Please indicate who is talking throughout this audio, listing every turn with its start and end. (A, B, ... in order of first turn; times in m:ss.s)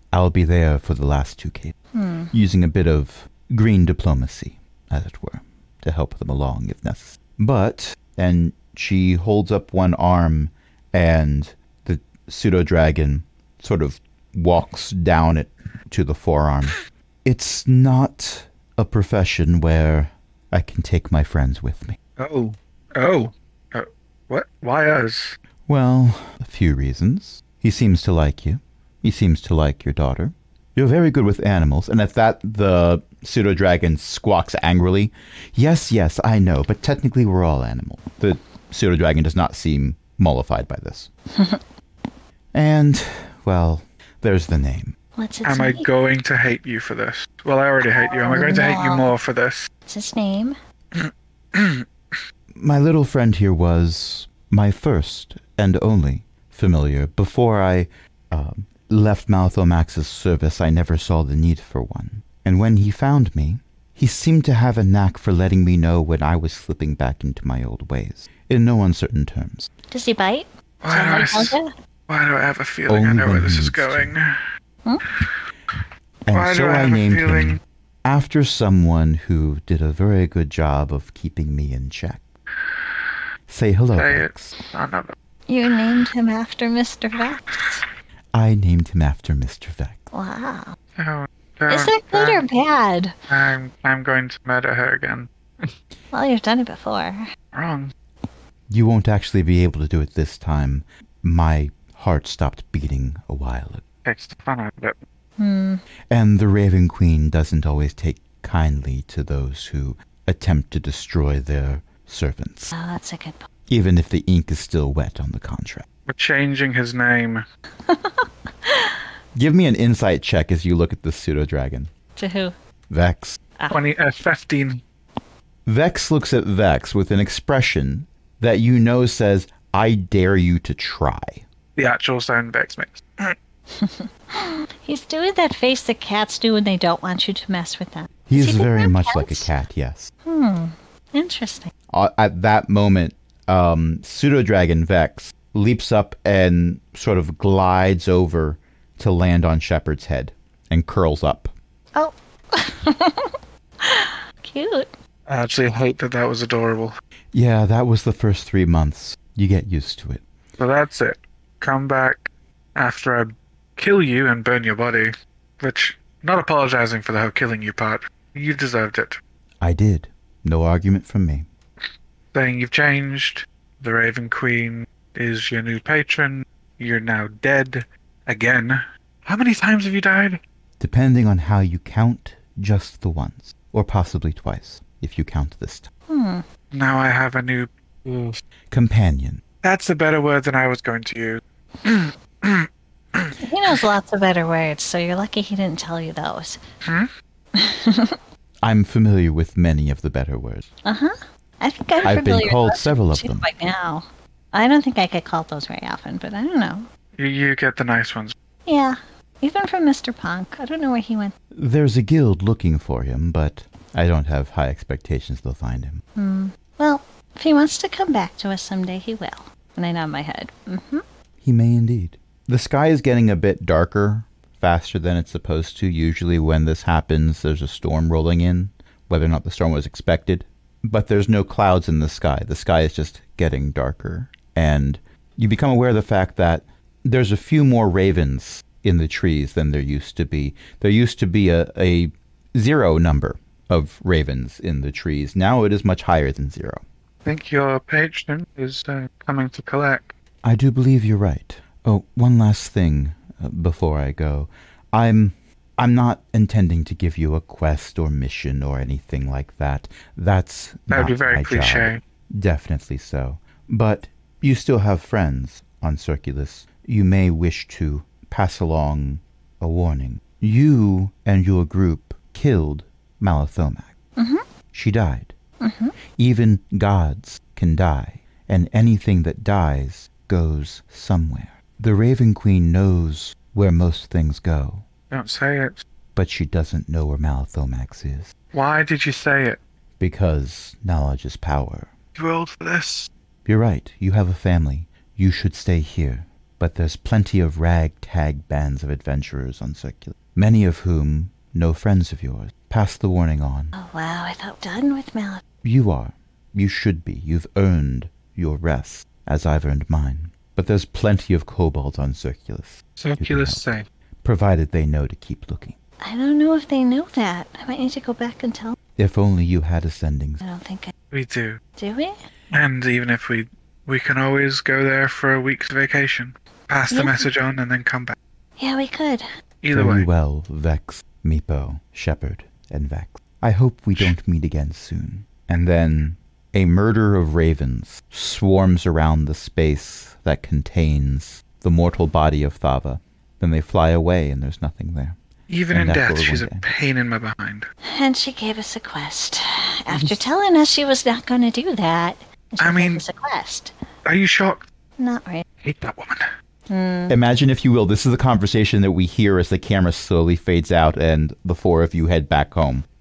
0:00.1-0:01.8 A
0:01.9-0:02.3 B
0:02.3-0:22.0 A
0:22.2-0:25.4 C
0:25.7-0:41.1 A
0:41.3-0:41.6 B
0:42.5-0:44.9 A
0:45.2-0:45.9 B
0:45.4-0:49.7 C
0:47.9-0:49.1 B
0:49.9-0:50.6 B
0:50.9-0:52.2 C
0:52.6-1:09.7 A
1:09.9-1:11.7 B
1:10.8-1:14.4 C
1:12.9-1:14.1 A
1:15.1-1:17.6 C
1:16.3-1:22.2 A
1:23.5-1:24.5 A
1:23.9-1:25.1 C
1:25.5-1:27.8 B
1:28.3-1:30.0 A
1:30.1-1:30.8 B
1:31.0-1:32.4 C
1:31.7-1:33.1 B
1:33.3-1:35.7 C
1:36.1-1:37.3 B
1:37.5-1:37.9 C
1:38.7-1:43.8 A
1:44.0-1:45.0 C
1:45.4-1:45.8 B
1:46.1-1:52.7 A
1:52.7-1:53.4 B
1:53.7-1:55.9 A
1:56.1-1:57.4 C
1:57.9-1:59.0 B
1:59.4-2:01.9 A
2:02.2-2:02.5 B
2:02.9-2:03.4 A
2:03.7-2:04.8 C
2:05.6-2:11.4 A
2:11.8-2:13.4 C
2:13.7-2:19.5 B
2:18.3-2:20.1 A
2:20.2-2:21.7 B
2:21.9-2:31.5 A
2:31.9-2:34.9 B
2:35.3-2:37.0 C
2:37.3-2:40.2 A
2:40.6-2:49.2 C
2:49.6-2:51.4 A
2:52.3-3:00.4 C
3:00.8-3:05.9 A
3:06.1-3:06.4 B
3:06.7-3:08.4 C
3:08.7-3:09.4 A
3:09.6-3:13.8 C
3:13.4-3:16.6 B
3:16.8-3:17.1 C
3:17.6-3:18.2 B
3:18.6-3:20.7 A
3:20.8-3:26.9 B
3:22.0-3:23.5 A
3:27.2-3:28.4 C
3:28.6-3:31.4 B
3:31.5-3:36.0 A
3:36.2-3:41.0 B
3:41.4-4:06.8 A
4:07.2-4:10.1 C
4:10.4-4:33.9 A
4:20.9-4:22.0 C
4:34.2-4:34.4 B
4:34.7-4:35.3 A
4:35.6-4:35.9 B
4:36.1-4:44.9 A
4:45.1-4:45.8 C
4:46.2-4:48.3 A
4:48.5-4:49.6 C
4:50.0-4:51.9 A
4:52.2-4:53.1 C
4:53.4-5:03.7 A
5:03.7-5:05.4 B
5:05.6-5:13.6 A
5:13.0-5:13.8 C
5:14.2-5:15.8 A
5:16.0-5:18.8 B
5:19.0-5:20.4 A
5:20.4-5:20.9 B
5:21.1-5:21.6 C
5:21.8-5:22.1 B
5:22.5-5:28.2 C
5:26.9-5:27.3 B
5:28.6-5:29.2 B
5:29.6-5:30.1 C
5:29.7-5:45.2 A
5:45.5-5:47.7 C
5:45.7-5:46.6 A
5:47.9-5:53.7 B
5:52.6-5:53.0 C
5:54.1-5:54.6 C
5:55.0-5:55.4 B
5:55.6-5:56.3 C
5:56.7-5:57.2 B
5:57.1-6:02.8 A